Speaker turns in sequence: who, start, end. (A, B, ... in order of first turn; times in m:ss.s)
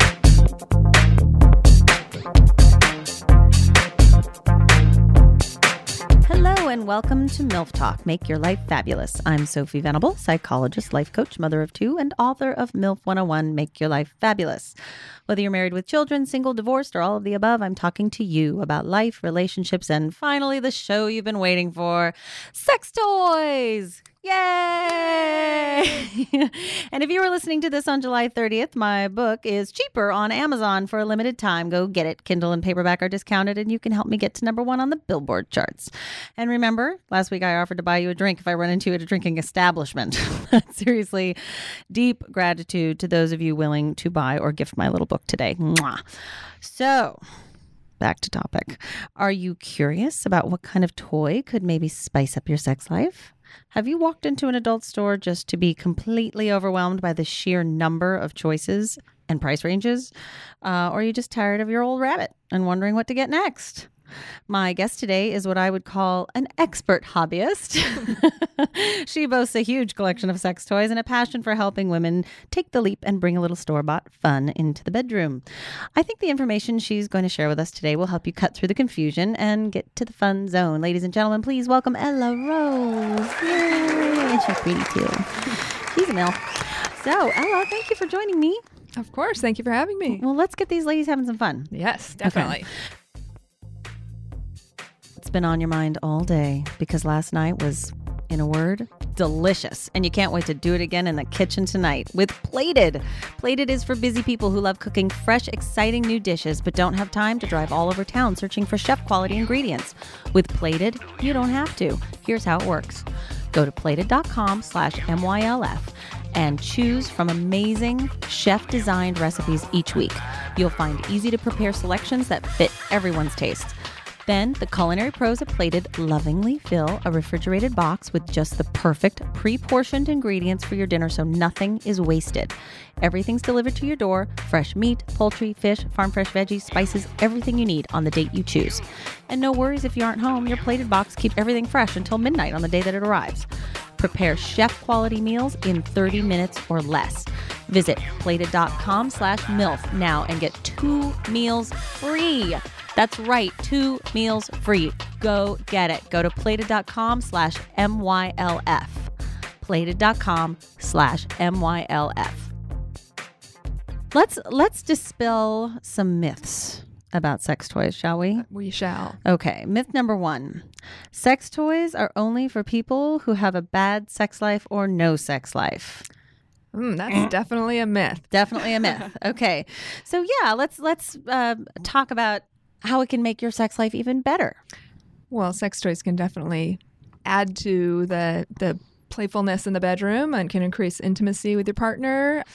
0:06.2-0:14.8 A
0:15.3-0:46.0 A
0:46.6-0:47.2 A
0:48.0-1:03.9 A
1:04.5-1:15.4 A
1:16.0-1:28.6 A
1:29.0-1:30.2 B
1:30.1-1:31.7 A
1:31.7-1:32.7 B
1:32.2-1:32.5 A
1:35.2-2:03.7 A
2:04.2-2:23.5 A
2:24.0-2:42.5 A
2:44.1-2:48.4 A
2:48.4-2:49.2 B
2:49.2-2:56.0 A
2:56.7-2:58.3 B
2:58.3-3:04.6 A
3:05.3-3:12.4 B